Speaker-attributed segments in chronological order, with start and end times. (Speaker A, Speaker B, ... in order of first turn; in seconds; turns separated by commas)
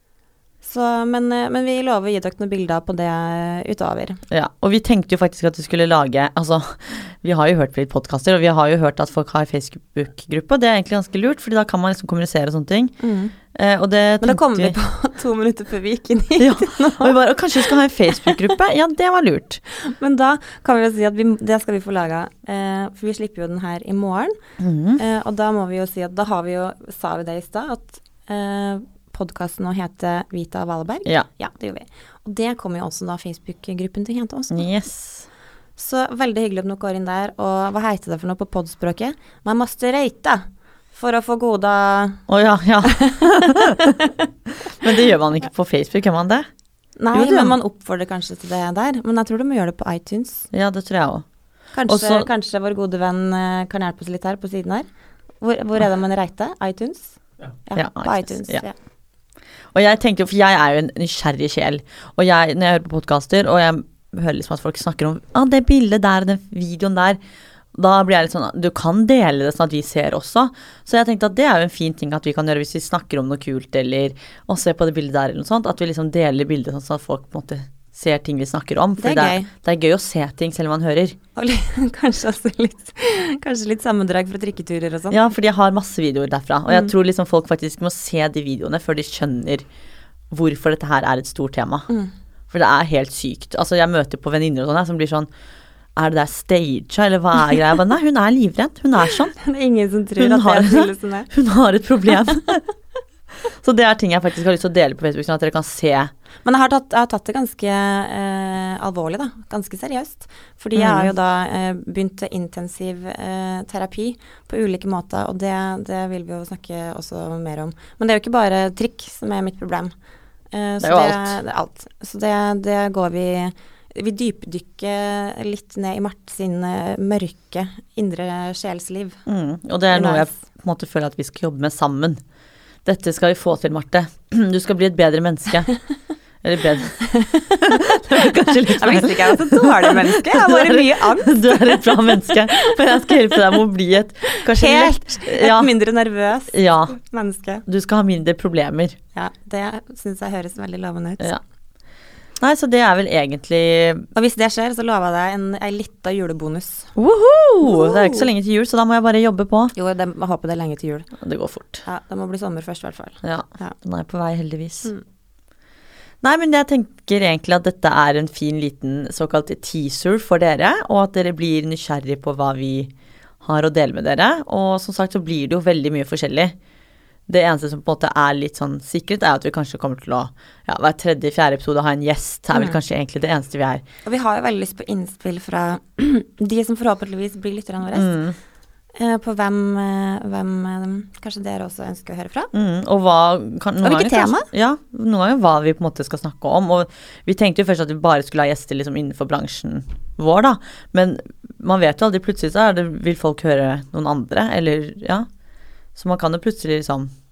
Speaker A: 0.6-4.2, Speaker B: 4.3-12.9, Speaker A: 13.0-13.3, Speaker B: 13.5-14.8, Speaker A: 14.2-17.2, Speaker B: 16.4-19.6, Speaker A: 18.1-18.5, Speaker A: 19.7-24.4, Speaker B: 24.6-25.0, Speaker A: 25.0-34.7, Speaker B: 34.5-35.3, Speaker A: 35.8-42.2, Speaker B: 42.3-44.1, Speaker A: 42.9-43.2, Speaker B: 44.6-46.5, Speaker A: 47.0-50.5, Speaker B: 47.1-47.5, Speaker B: 50.5-51.2, Speaker A: 51.7-54.9, Speaker B: 51.9-52.3, Speaker A: 55.4-58.7, Speaker B: 57.8-58.6, Speaker B: 59.7-67.2, Speaker B: 67.7-81.1, Speaker A: 79.0-79.5, Speaker A: 81.3-85.2, Speaker B: 85.1-89.6, Speaker B: 90.3-91.9, Speaker B: 92.5-95.3, Speaker B: 96.0-99.3, Speaker A: 99.3-101.3, Speaker B: 100.2-102.6, Speaker B: 103.6-106.1, Speaker A: 106.4-119.9, Speaker B: 110.7-111.1, Speaker A: 120.5-129.2, Speaker B: 120.8-121.4, Speaker B: 129.3-132.2, Speaker A: 129.9-130.3, Speaker B: 132.8-135.7, Speaker B: 136.4-137.0, Speaker A: 137.0-143.4, Speaker B: 137.6-145.7, Speaker A: 144.3-147.6, Speaker B: 146.5-146.9, Speaker B: 147.7-148.9, Speaker A: 149.1-151.3, Speaker B: 152.4-154.1, Speaker A: 154.1-156.9, Speaker B: 156.9-159.7, Speaker A: 157.6-158.3, Speaker A: 159.7-161.1, Speaker B: 161.2-161.8, Speaker A: 161.8-163.8, Speaker B: 163.2-164.9, Speaker B: 166.2-172.9, Speaker B: 173.4-176.5, Speaker B: 177.3-183.8, Speaker A: 184.0-188.2, Speaker B: 187.9-188.4, Speaker A: 189.0-192.5, Speaker B: 192.5-205.3, Speaker A: 193.8-194.5, Speaker B: 205.9-207.1